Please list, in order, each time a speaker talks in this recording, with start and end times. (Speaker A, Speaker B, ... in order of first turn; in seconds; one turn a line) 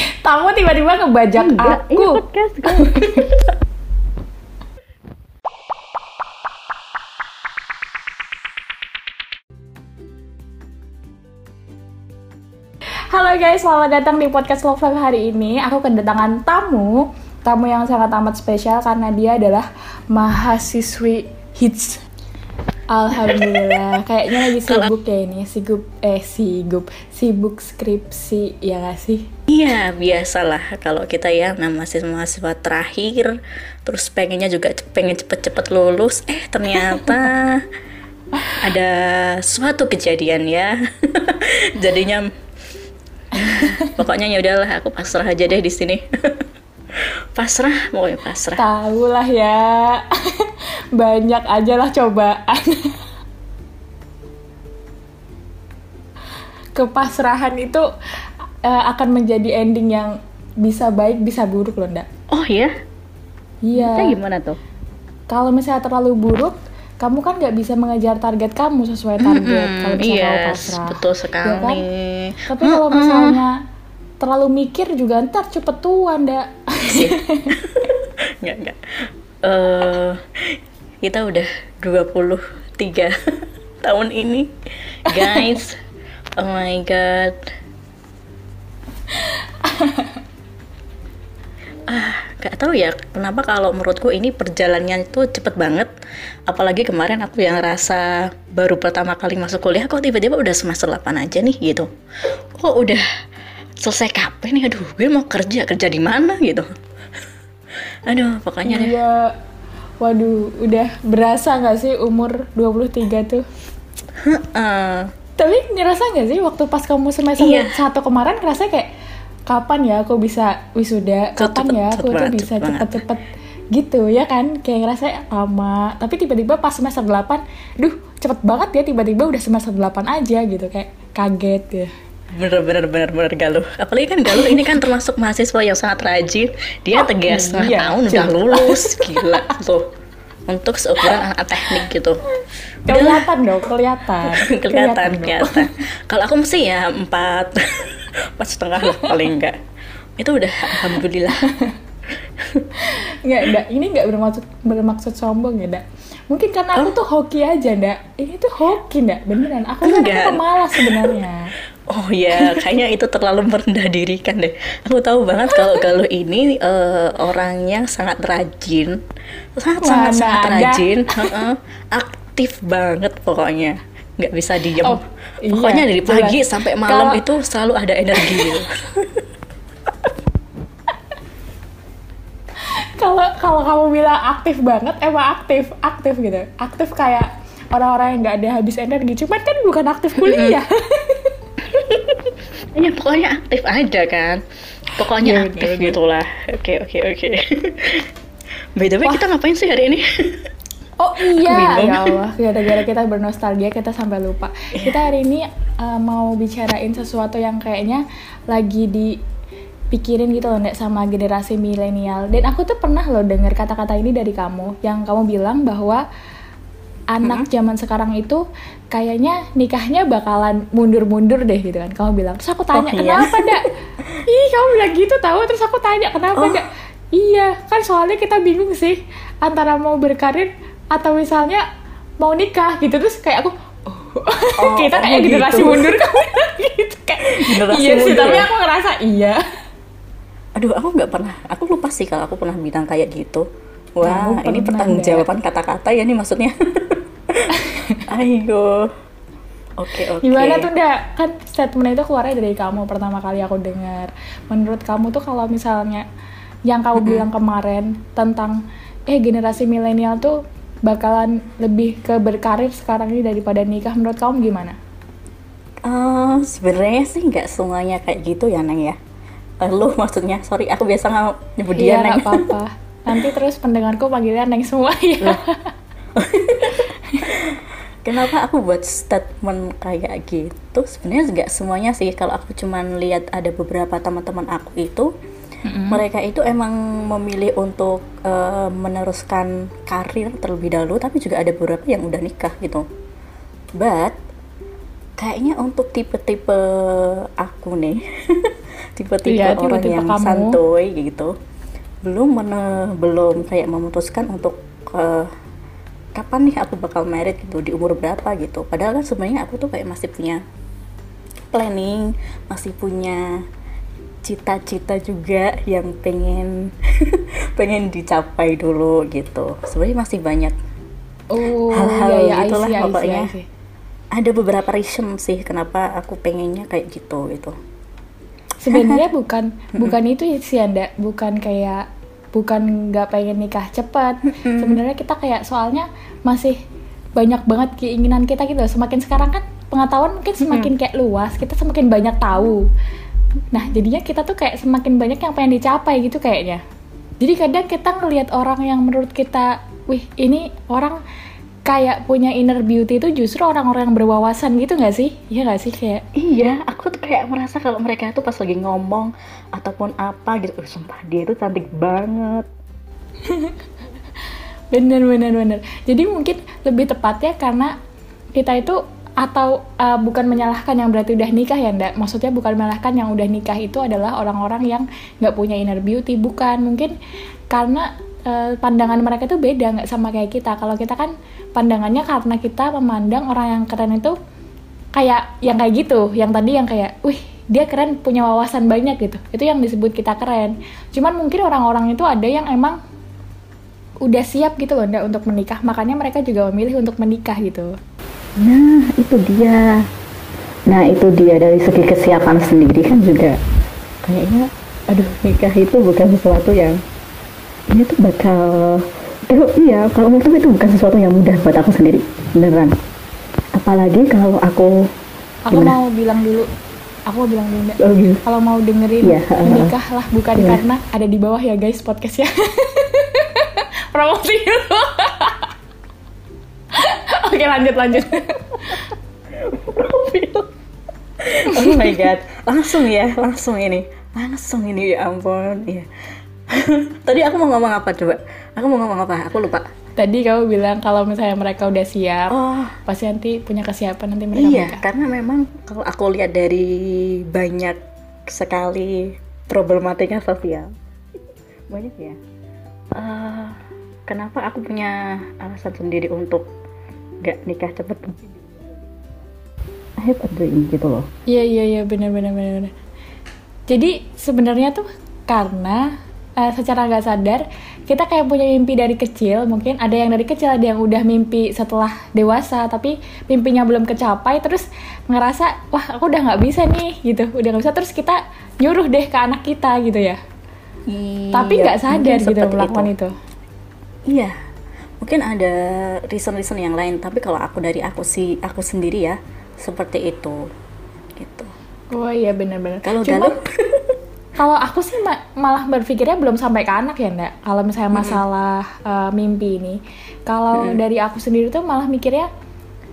Speaker A: 0.2-3.2
Speaker B: 1.4-3.5
Speaker A: 13.1-22.0
Speaker A: 22.9-29.3
Speaker B: 23.1-23.8
Speaker B: 24.4-24.9
Speaker B: 29.5-37.6
Speaker A: 36.9-37.1
Speaker B: 38.5-42.3
Speaker B: 43.3-46.5
Speaker A: 43.4-44.0
Speaker B: 47.4-48.6
Speaker A: 48.6-53.0
Speaker A: 56.8-57.9
Speaker A: 58.6-62.1
Speaker B: 62.3-62.7
Speaker A: 63.6-64.1
Speaker B: 63.8-64.6
Speaker A: 65.3-71.8
Speaker B: 69.2-73.4
Speaker A: 72.5-73.6
Speaker A: 74.2-77.5
Speaker B: 76.9-78.9
Speaker B: 79.4-83.1
Speaker B: 83.8-84.5
Speaker B: 85.0-85.8
Speaker A: 85.1-85.6
Speaker B: 86.4-87.4
Speaker A: 89.1-90.2
Speaker B: 91.9-95.9
Speaker B: 96.5-103.0
Speaker B: 103.8-106.7
Speaker B: 108.1-109.0
Speaker A: 108.7-109.3
Speaker A: 110.0-113.4
Speaker B: 114.2-115.1
Speaker A: 115.4-118.9
Speaker B: 117.4-117.8
Speaker A: 119.5-131.9
Speaker B: 121.4-123.0
Speaker B: 132.3-139.9
Speaker A: 134.3-134.6
Speaker A: 137.0-139.5
Speaker B: 140.5-142.2
Speaker B: 142.9-143.3
Speaker A: 142.9-145.7
Speaker B: 144.2-149.6
Speaker A: 148.8-149.2
Speaker B: 150.2-151.5
Speaker A: 151.5-151.7
Speaker B: 152.2-152.7
Speaker A: 152.8-161.5
Speaker B: 159.8-161.2
Speaker B: 161.9-169.0
Speaker B: 169.6-179.2
Speaker A: 169.8-171.4
Speaker A: 174.8-177.2
Speaker A: 178.2-178.6
Speaker A: 182.6-191.3
Speaker B: 190.2-190.6
Speaker B: 191.7-194.4
Speaker B: 195.0-198.1
Speaker A: 195.2-196.0
Speaker B: 198.8-200.5
Speaker A: 201.0-209.2
Speaker B: 201.4-202.2
Speaker B: 204.8-205.0
Speaker A: 209.9-216.0
Speaker A: 217.1-223.7
Speaker B: 222.7-223.7
Speaker A: 224.3-231.6
Speaker B: 226.3-226.6
Speaker A: 232.2-239.4
Speaker B: 234.6-236.2
Speaker B: 237.3-238.5
Speaker B: 240.6-247.5
Speaker A: 244.0-245.2
Speaker A: 247.5-248.0
Speaker B: 248.1-248.9
Speaker B: 249.8-250.7
Speaker A: 250.2-256.1
Speaker A: 256.7-264.8
Speaker B: 257.0-257.3
Speaker B: 265.9-269.0
Speaker B: 269.6-272.5
Speaker A: 271.7-275.7
Speaker B: 276.2-285.1
Speaker A: 276.6-277.3
Speaker A: 285.6-286.0
Speaker B: 285.9-292.8
Speaker B: 293.8-294.1
Speaker B: 295.2-301.3
Speaker A: 299.3-300.6
Speaker B: 302.0-305.3
Speaker B: 306.1-310.4
Speaker B: 311.5-313.2
Speaker B: 314.2-320.5
Speaker A: 321.3-323.4
Speaker B: 321.7-323.3
Speaker B: 324.1-327.6
Speaker A: 328.6-336.6
Speaker B: 328.7-329.0
Speaker B: 334.3-334.8
Speaker A: 337.2-342.6
Speaker B: 340.4-340.7
Speaker A: 343.5-346.6
Speaker A: 347.2-351.0
Speaker A: 351.7-356.0
Speaker B: 356.2-362.5
Speaker A: 363.3-363.6
Speaker A: 364.7-367.7
Speaker A: 368.4-376.9
Speaker A: 377.5-384.1
Speaker A: 384.9-392.8
Speaker A: 394.1-397.7
Speaker B: 398.4-399.8
Speaker B: 400.7-403.4
Speaker B: 404.0-406.8
Speaker B: 407.7-412.7
Speaker B: 413.6-414.9
Speaker A: 415.5-416.5
Speaker A: 417.1-425.5
Speaker B: 417.8-418.2
Speaker B: 419.0-419.7
Speaker B: 420.4-420.6
Speaker A: 426.7-428.9
Speaker B: 429.3-430.5
Speaker B: 431.2-435.9
Speaker B: 436.5-439.6
Speaker A: 440.0-442.3
Speaker B: 442.3-442.8
Speaker A: 442.9-444.8
Speaker B: 444.4-450.7
Speaker B: 451.7-452.2
Speaker B: 453.0-456.5
Speaker B: 457.2-459.3
Speaker B: 460.0-461.1
Speaker A: 461.3-462.7
Speaker A: 463.7-465.9
Speaker A: 466.4-480.2
Speaker B: 480.9-482.9
Speaker A: 481.3-483.1
Speaker B: 484.1-484.3
Speaker B: 485.0-490.4
Speaker B: 491.2-491.5
Speaker A: 491.9-493.4
Speaker B: 492.8-494.0
Speaker A: 494.4-502.3
Speaker B: 497.9-498.2
Speaker B: 500.5-500.8